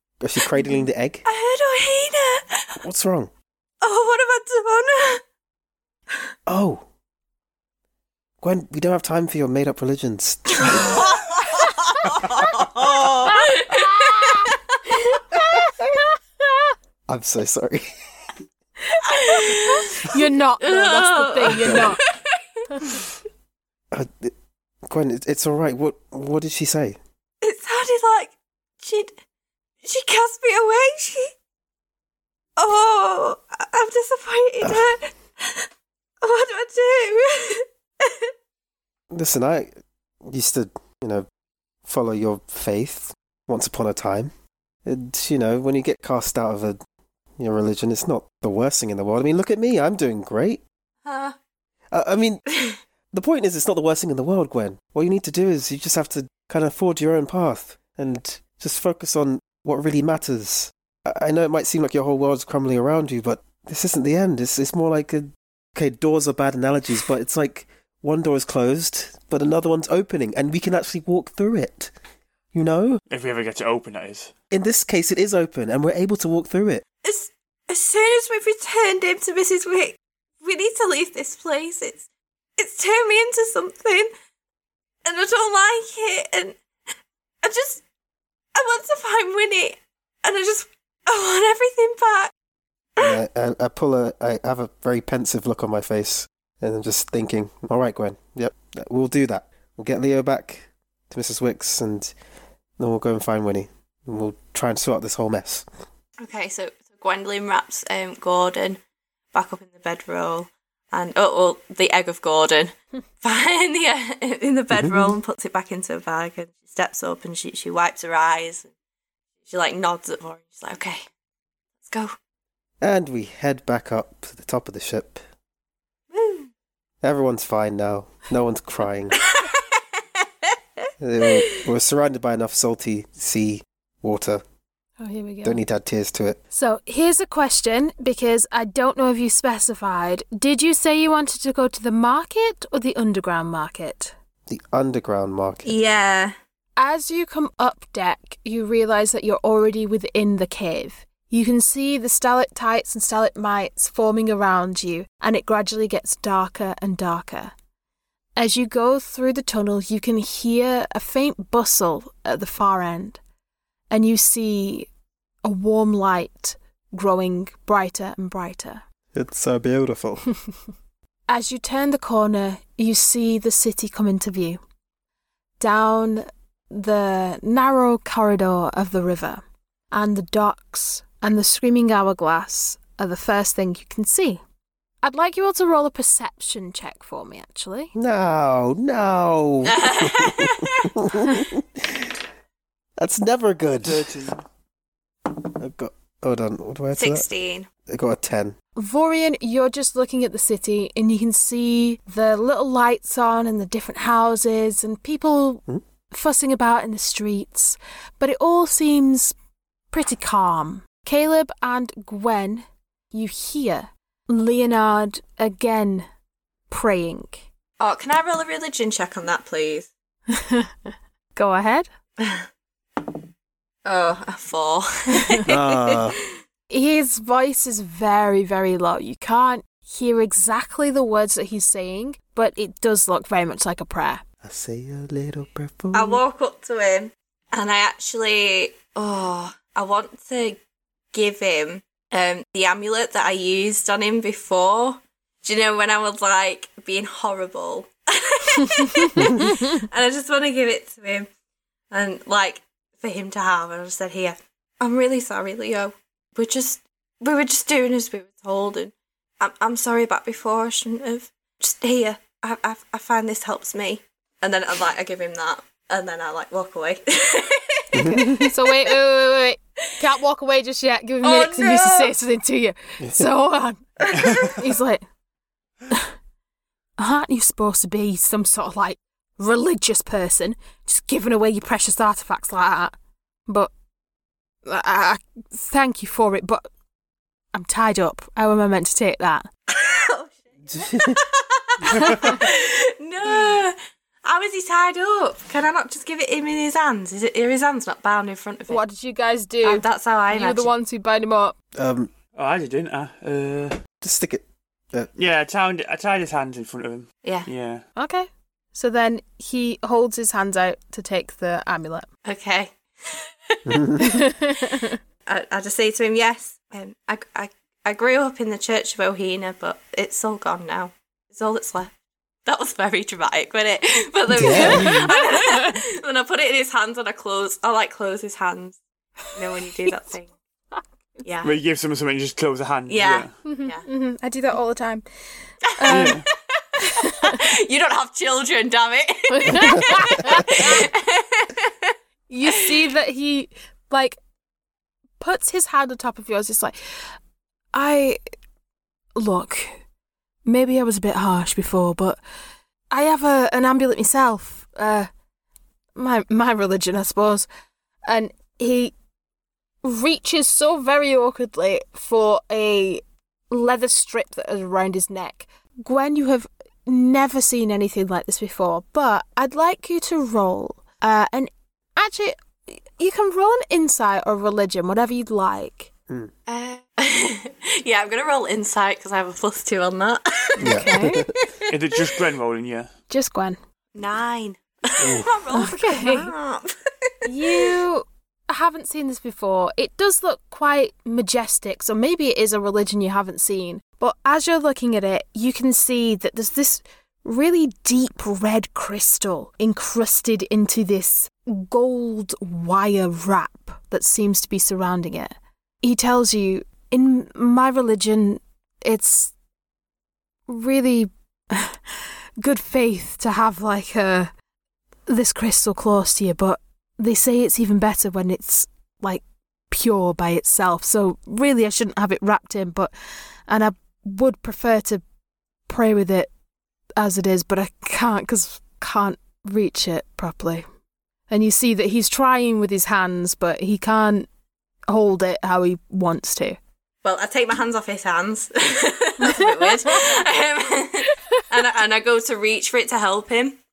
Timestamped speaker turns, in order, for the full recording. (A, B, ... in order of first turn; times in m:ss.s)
0:00.2-0:01.2 A
0:00.6-0:02.8 B
0:02.8-0:03.3 A
0:03.8-0:05.2 B
0:06.5-0:06.8 A
0:08.4-0:11.1 A
0:10.6-0:14.8 B
0:13.3-0:14.5 C
0:15.1-0:15.7 C
0:17.1-0:17.9 A
0:18.9-0:22.0 C
0:19.0-0:22.4 B
0:21.5-0:22.0 A
0:23.9-0:24.3 A
0:24.9-0:27.0 A
0:27.4-0:29.2 B
0:29.8-0:31.3 B
0:32.6-0:35.7 B
0:36.2-0:38.3 B
0:39.1-0:39.7 A
0:40.2-0:41.3 A
0:41.8-0:44.3 A
0:44.8-0:46.8 A
0:47.4-0:50.6 A
0:51.0-0:51.4 B
0:51.9-0:52.4 A
0:53.1-1:11.9 A
1:12.5-1:13.0 A
1:13.1-1:14.3 D
1:14.5-1:16.8 A
1:17.0-1:24.1 B
1:25.0-1:26.6 B
1:27.4-1:27.8 B
1:28.6-1:32.3 B
1:33.0-1:42.1 A
1:42.8-1:45.7 A
1:46.2-1:48.8 B
1:49.3-1:58.7 B
1:54.7-1:55.2 A
1:59.5-2:01.0 B
2:01.8-2:02.1 B
2:02.8-2:05.2 A
2:06.1-2:06.5 B
2:07.0-2:09.2 A
2:09.2-2:09.8 B
2:10.8-2:11.5 B
2:11.0-2:14.4 A
2:15.0-2:15.6 C
2:15.4-2:16.4 A
2:16.5-2:24.1 C
2:24.5-2:25.8 A
2:25.6-2:26.3 B
2:26.8-2:37.5 C
2:38.4-2:43.2 C
2:43.9-2:44.9 C
2:45.4-2:48.8 C
2:49.1-2:50.2 A
2:51.3-2:54.6 C
2:55.6-3:04.4 C
3:05.0-3:07.9 C
3:07.9-3:12.2 A
3:09.6-3:10.9 B
3:13.0-3:14.1 A
3:13.8-3:14.4 D
3:15.3-3:17.3 A
3:17.0-3:17.7 B
3:17.9-3:18.6 A
3:18.8-3:29.4 C
3:29.9-3:36.1 C
3:36.7-3:37.5 C
3:37.8-3:39.9 B
3:40.3-3:41.9 C
3:42.2-3:42.4 B
3:43.8-3:46.2 B
3:45.2-3:45.4 C
3:45.5-3:46.2 A
3:46.7-3:54.2 C
3:54.4-3:56.2 A
3:55.9-4:00.6 B
4:01.1-4:11.3 B
4:08.8-4:09.8 C
4:09.2-4:09.5 A
4:11.9-4:29.0 B
4:27.9-4:28.5 A
4:28.0-4:35.0 C
4:31.2-4:32.1 B
4:33.0-4:33.3 A
4:34.0-4:34.6 B
4:34.1-4:34.6 D
4:37.0-4:43.0 C
4:44.6-4:46.7 C
4:47.5-4:49.5 C
4:49.7-4:58.8 B
4:50.7-4:51.2 A
4:51.9-4:52.4 D
4:58.7-5:01.6 C
4:59.6-5:00.7 B
5:01.8-5:02.1 A
5:02.4-5:03.8 D
5:04.0-5:05.1 A
5:05.2-5:07.8 D
5:08.0-5:12.1 C
5:12.2-5:13.8 B
5:13.7-5:14.2 A
5:14.0-5:15.0 C
5:15.3-5:21.9 B
5:22.5-5:28.8 B
5:24.3-5:25.1 A
5:24.5-5:25.8 C
5:29.3-5:30.3 B
5:31.2-5:31.5 B
5:31.4-5:33.3 D
5:32.9-5:33.8 B
5:33.4-5:35.0 C
5:35.8-5:36.2 C
5:35.8-5:41.9 B
5:35.9-5:36.2 D
5:36.8-5:37.4 C
5:39.3-5:40.9 C
5:39.5-5:40.4 A
5:42.3-5:44.2 C
5:45.2-5:46.8 C
5:47.7-5:48.2 C
5:49.2-5:49.8 C
5:50.4-5:52.2 C
5:52.9-5:55.1 C
5:56.0-5:57.5 C
5:58.1-5:59.0 C
5:59.8-6:15.9 C
6:16.5-6:21.7 B
6:20.6-6:21.3 C
6:20.6-6:21.4 A
6:21.7-6:22.9 D
6:23.1-6:23.6 C
6:24.0-6:27.7 B
6:25.0-6:25.3 A
6:25.5-6:26.3 C
6:27.2-6:49.3 C
6:50.5-6:54.3 C
6:55.1-7:02.9 C
7:03.5-7:05.0 C
7:05.7-7:06.3 C
7:07.0-7:10.6 C
7:11.3-7:14.3 C
7:14.9-7:16.6 C
7:17.0-7:23.6 B
7:19.2-7:20.1 C